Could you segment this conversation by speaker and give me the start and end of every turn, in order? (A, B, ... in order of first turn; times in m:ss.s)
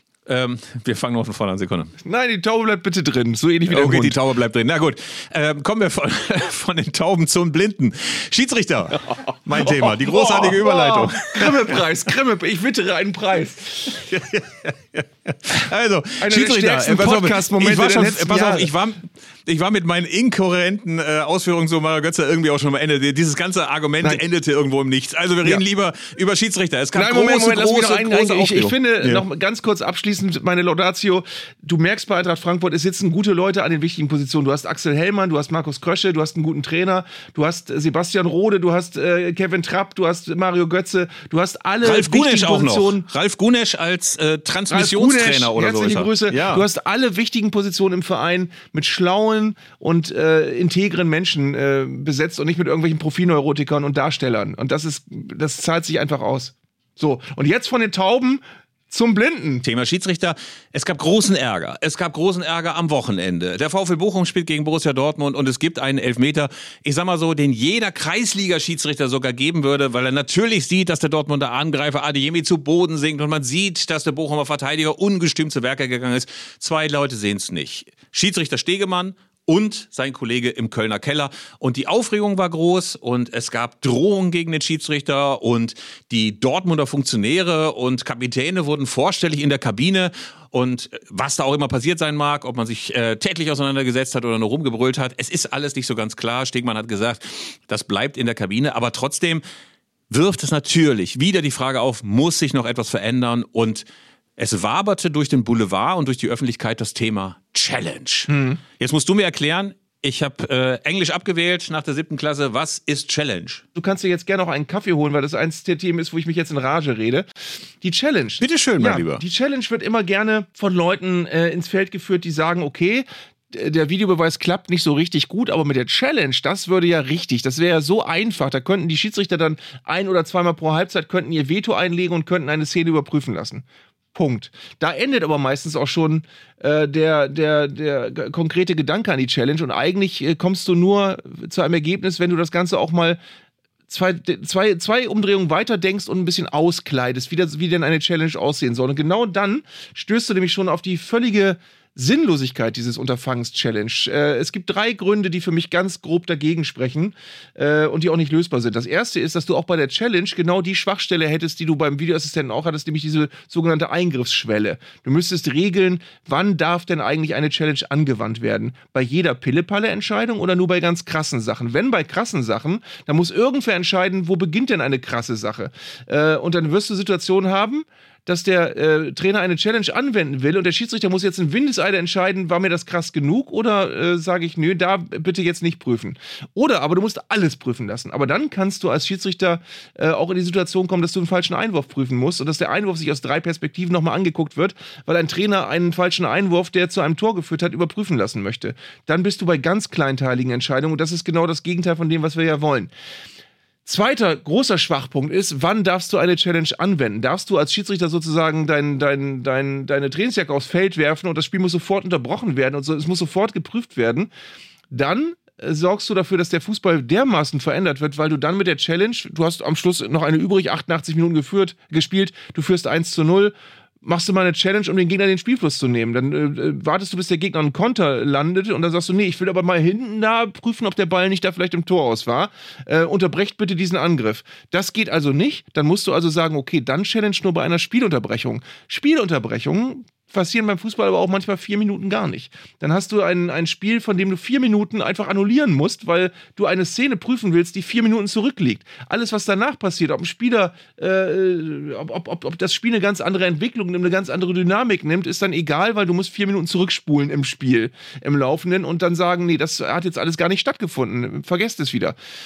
0:00.3-0:01.9 A
0:02.0-0:04.2 B
0:03.7-0:11.6 A
0:09.5-0:14.0 B
0:14.0-0:29.2 A
0:16.2-0:18.7 B
0:26.9-0:43.1 B
0:41.8-0:46.6 A
0:44.7-0:59.6 B
0:59.6-1:39.4 A
1:40.1-1:43.8 A
1:44.4-1:53.6 A
1:48.3-1:48.6 B
1:53.8-2:23.2 B
1:58.4-1:59.2 A
2:23.9-3:22.9 B
3:23.8-3:34.3 B
3:34.9-4:22.1 B